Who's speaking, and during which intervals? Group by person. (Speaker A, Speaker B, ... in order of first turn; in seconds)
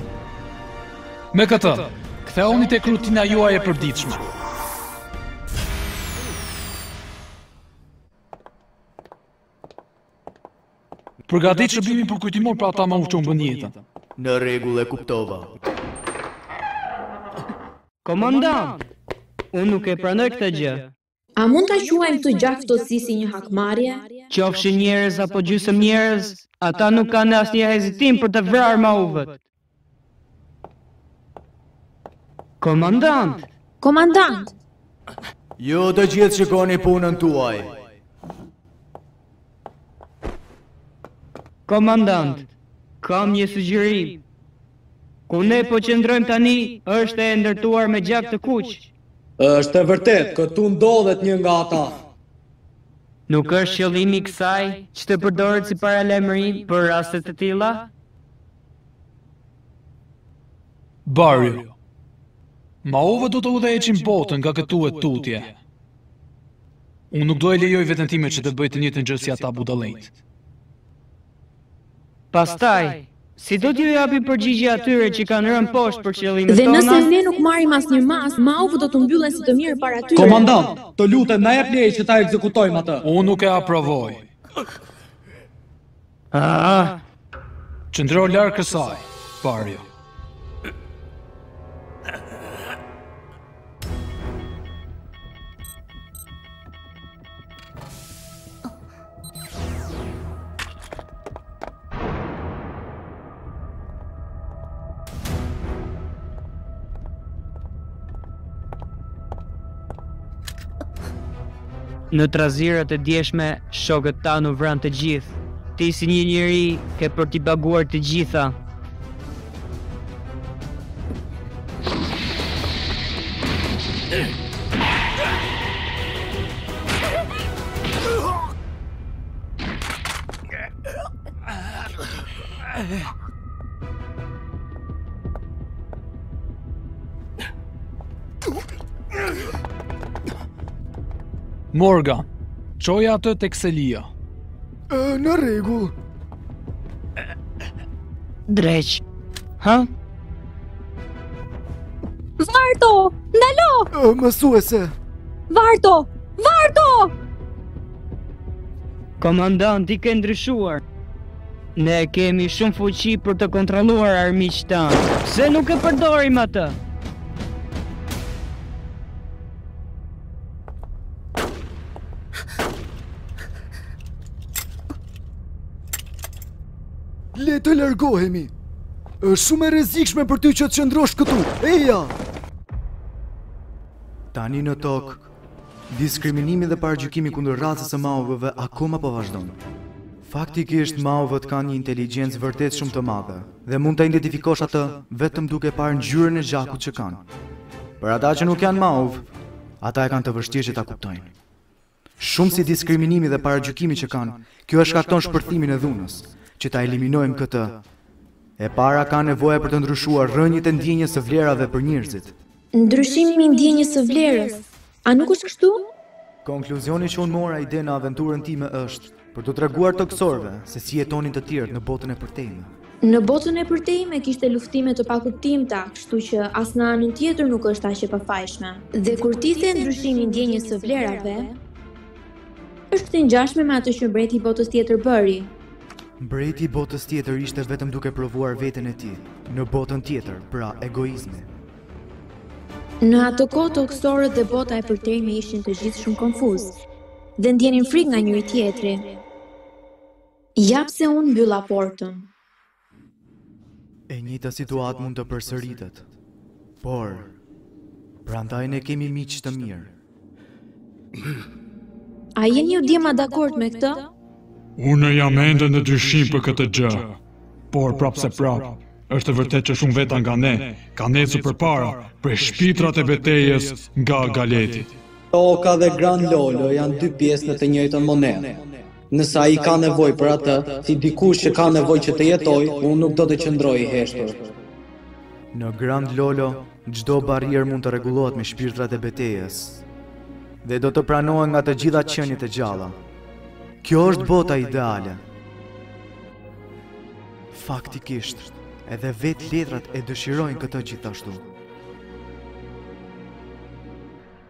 Speaker A: 1.3-4.2, 11.3-13.8, 61.1-61.7, 62.8-65.6, 67.1-70.2, 83.0-84.3, 87.9-89.9, 141.7-142.3, 142.8-144.1, 264.8-267.2, 267.7-274.9
Speaker B: 14.2-15.5, 35.6-37.8, 184.3-185.3, 185.9-189.6, 190.2-197.2, 198.0-199.3, 199.8-201.3, 202.2-207.8, 208.6-212.4, 216.4-222.7, 236.2-241.5, 254.1-256.0, 256.8-257.4, 258.3-259.9, 285.5-289.8, 290.6-293.0, 293.8-295.2, 297.5-301.4
Speaker C: 18.1-18.9, 19.5-20.9, 24.3-29.4, 32.6-33.5, 41.7-42.5, 43.0-44.2, 45.3-48.9, 53.3-57.9, 72.3-77.0, 86.3-87.0, 112.1-118.5, 148.5-149.0, 149.6-149.9, 159.2-160.8, 161.8-166.8
Speaker D: 21.4-24.2, 33.8-34.5, 76.5-80.6, 152.4-153.9, 155.5-157.1, 212.7-215.9, 223.0-231.6, 232.9-235.5, 243.0-246.8, 247.4-249.2, 250.6-252.3, 262.4-264.1
Speaker E: 49.4-52.0, 80.2-83.0, 275.3-284.5
Speaker F: 144.9-145.9, 153.9-154.9, 177.3-178.5, 179.2-182.1